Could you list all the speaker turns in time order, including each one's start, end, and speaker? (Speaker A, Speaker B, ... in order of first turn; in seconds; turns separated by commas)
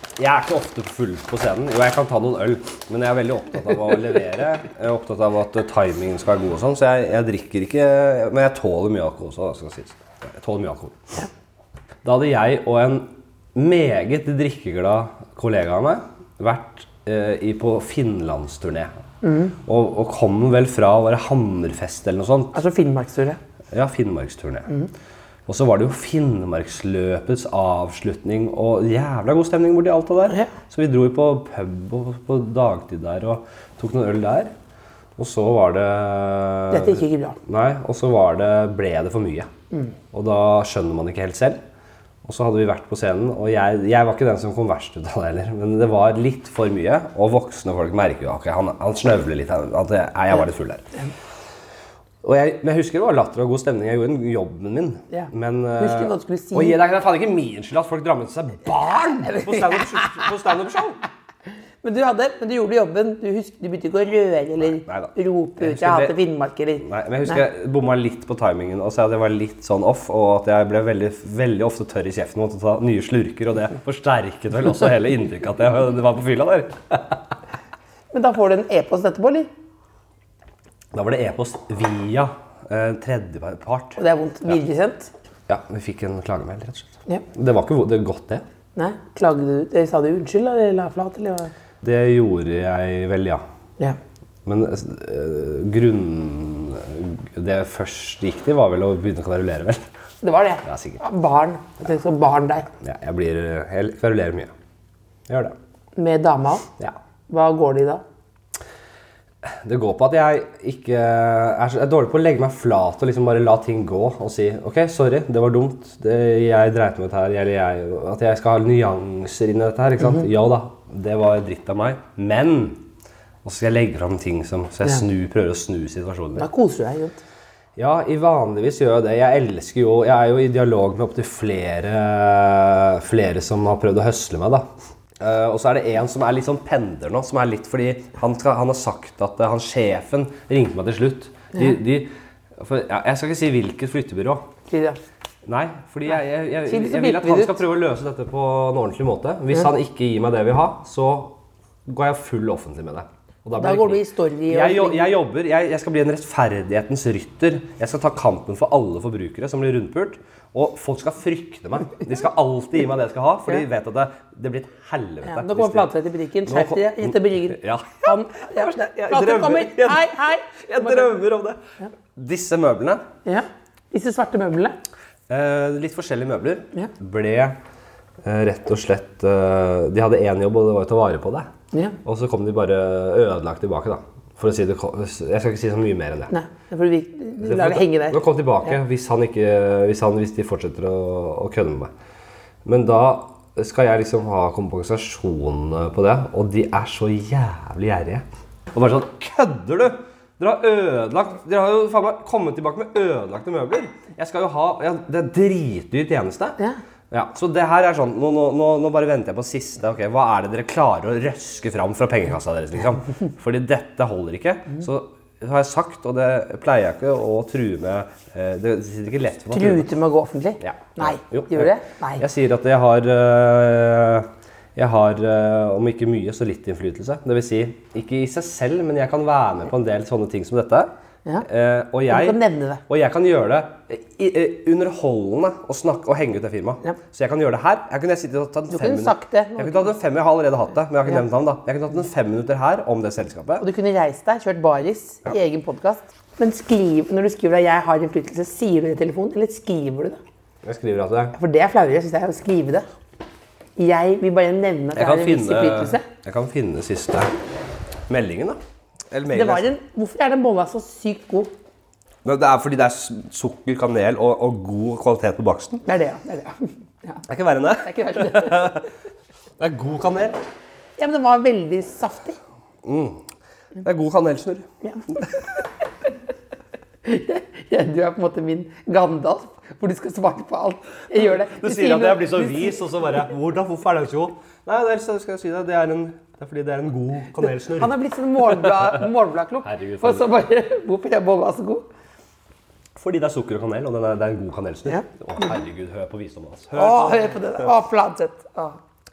Speaker A: 0.2-11.0, Speaker A: 12.0-18.9, Speaker B: 19.2-19.6, Speaker A: 19.6-22.6, Speaker B: 22.5-23.4, Speaker A: 23.7-24.7, Speaker A: 25.5-34.5, Speaker A: 35.2-39.5, Speaker B: 36.7-37.4, Speaker A: 40.1-41.6, Speaker A: 42.2-50.9, Speaker A: 52.2-61.0, Speaker B: 55.1-56.8, Speaker B: 59.3-60.2, Speaker B: 61.8-66.8, Speaker A: 64.6-66.2, Speaker A: 66.8-77.2, Speaker B: 78.1-79.5, Speaker A: 80.9-84.6, Speaker B: 84.0-85.1, Speaker A: 85.5-88.4, Speaker B: 88.8-91.5, Speaker A: 91.8-93.4, Speaker A: 94.4-99.8, Speaker B: 100.2-102.7, Speaker A: 100.6-101.0, Speaker A: 102.8-104.5, Speaker A: 105.3-105.5, Speaker B: 106.0-106.7, Speaker B: 107.3-108.0, Speaker A: 109.4-122.8, Speaker A: 123.4-126.5, Speaker B: 126.3-127.2, Speaker A: 127.8-134.7, Speaker A: 135.2-144.4, Speaker B: 144.7-145.0, Speaker A: 145.4-151.3, Speaker B: 146.6-147.6, Speaker A: 151.9-165.9, Speaker B: 153.6-155.2, Speaker B: 165.2-171.1, Speaker A: 166.4-171.6, Speaker A: 172.2-173.1, Speaker B: 173.2-174.8, Speaker A: 175.3-177.6, Speaker A: 178.2-181.5, Speaker A: 182.0-186.3, Speaker B: 186.3-188.2, Speaker A: 187.4-191.9, Speaker A: 192.6-206.6, Speaker A: 207.1-219.9, Speaker B: 219.5-222.2, Speaker A: 220.6-230.9, Speaker A: 231.4-243.7, Speaker B: 232.1-232.8, Speaker B: 238.7-239.9, Speaker B: 243.6-250.2, Speaker A: 250.6-251.3, Speaker B: 251.3-252.8, Speaker B: 253.8-256.0, Speaker A: 254.9-257.3, Speaker A: 258.1-258.6, Speaker A: 259.1-259.7, Speaker B: 259.3-261.5, Speaker A: 262.2-265.8, Speaker B: 265.8-267.2, Speaker A: 267.3-268.9, Speaker B: 267.8-268.8, Speaker A: 269.6-270.4, Speaker B: 271.0-272.4, Speaker A: 272.8-273.2, Speaker A: 273.8-274.7, Speaker B: 277.0-282.7, Speaker A: 281.4-288.0, Speaker B: 287.8-291.9, Speaker A: 288.6-288.9, Speaker A: 289.6-290.3, Speaker A: 292.9-297.3, Speaker B: 296.7-298.8